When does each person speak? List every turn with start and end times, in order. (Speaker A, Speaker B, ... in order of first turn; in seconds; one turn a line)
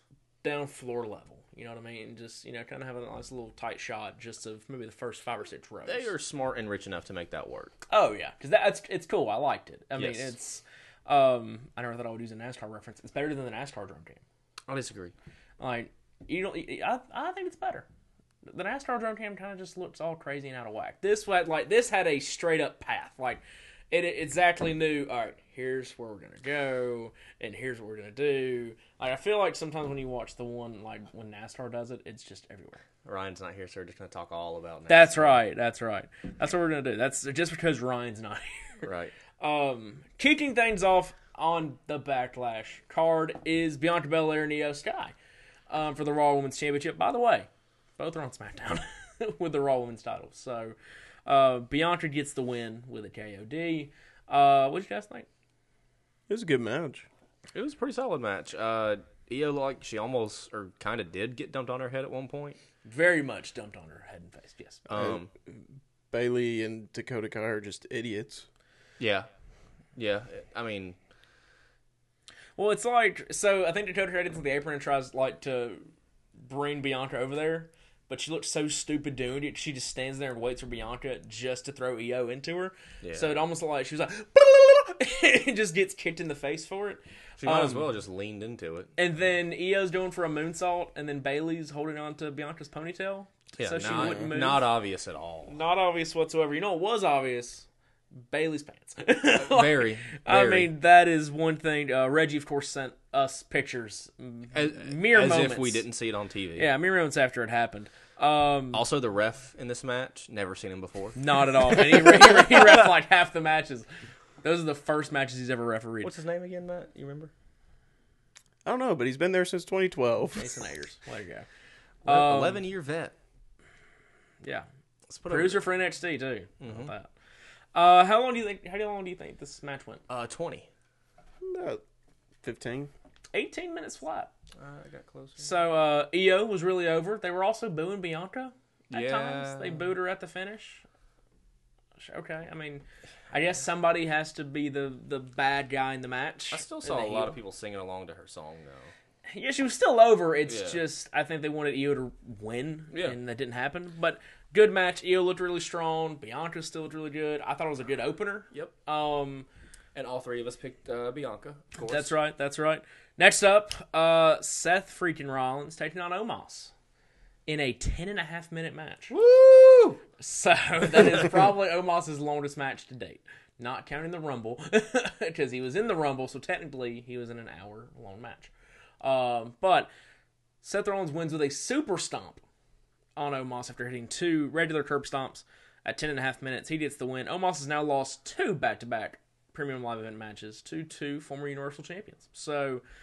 Speaker A: 0.4-6.1
Speaker B: 5.9-7.8
Speaker A: 7.9-14.2
Speaker B: 10.0-10.3
Speaker B: 14.7-15.1
Speaker A: 15.6-17.9
Speaker A: 18.5-32.8
Speaker B: 33.0-35.4
Speaker A: 34.9-38.9
Speaker B: 38.8-39.1
Speaker A: 39.4-45.1
Speaker A: 45.7-50.8
Speaker A: 51.3-55.3
Speaker C: 56.3-57.1
Speaker B: 57.5-62.6
Speaker A: 62.9-64.9
Speaker B: 64.9-65.3
Speaker C: 65.0-68.5
Speaker B: 69.0-69.3
Speaker B: 70.0-71.0
Speaker A: 72.6-75.9
Speaker A: 76.5-87.9
Speaker B: 83.0-83.3
Speaker B: 87.4-88.9
Speaker A: 89.0-94.7
Speaker B: 93.5-95.6
Speaker A: 95.5-97.7
Speaker A: 98.3-105.8
Speaker B: 99.3-100.7
Speaker B: 104.5-106.7
Speaker A: 106.6-108.8
Speaker B: 108.7-111.2
Speaker A: 111.2-113.9
Speaker B: 111.7-112.1
Speaker A: 114.4-116.1
Speaker B: 116.0-117.3
Speaker C: 118.7-120.6
Speaker A: 120.4-121.5
Speaker A: 122.0-122.6
Speaker B: 122.0-123.1
Speaker B: 125.1-125.6
Speaker A: 125.3-127.1
Speaker B: 126.6-126.9
Speaker A: 127.8-130.0
Speaker B: 130.1-130.7
Speaker C: 131.4-131.8
Speaker C: 132.4-132.9
Speaker A: 133.3-134.3
Speaker B: 134.6-135.5
Speaker A: 135.4-140.8
Speaker B: 138.9-139.9
Speaker A: 142.0-147.4
Speaker B: 146.5-148.9
Speaker A: 149.3-159.5
Speaker B: 150.5-150.8
Speaker B: 152.9-153.2
Speaker B: 159.9-162.1
Speaker A: 161.8-166.7
Speaker A: 167.5-169.1
Speaker B: 169.1-170.0
Speaker A: 170.2-179.9
Speaker A: 180.6-182.4
Speaker A: 183.2-192.8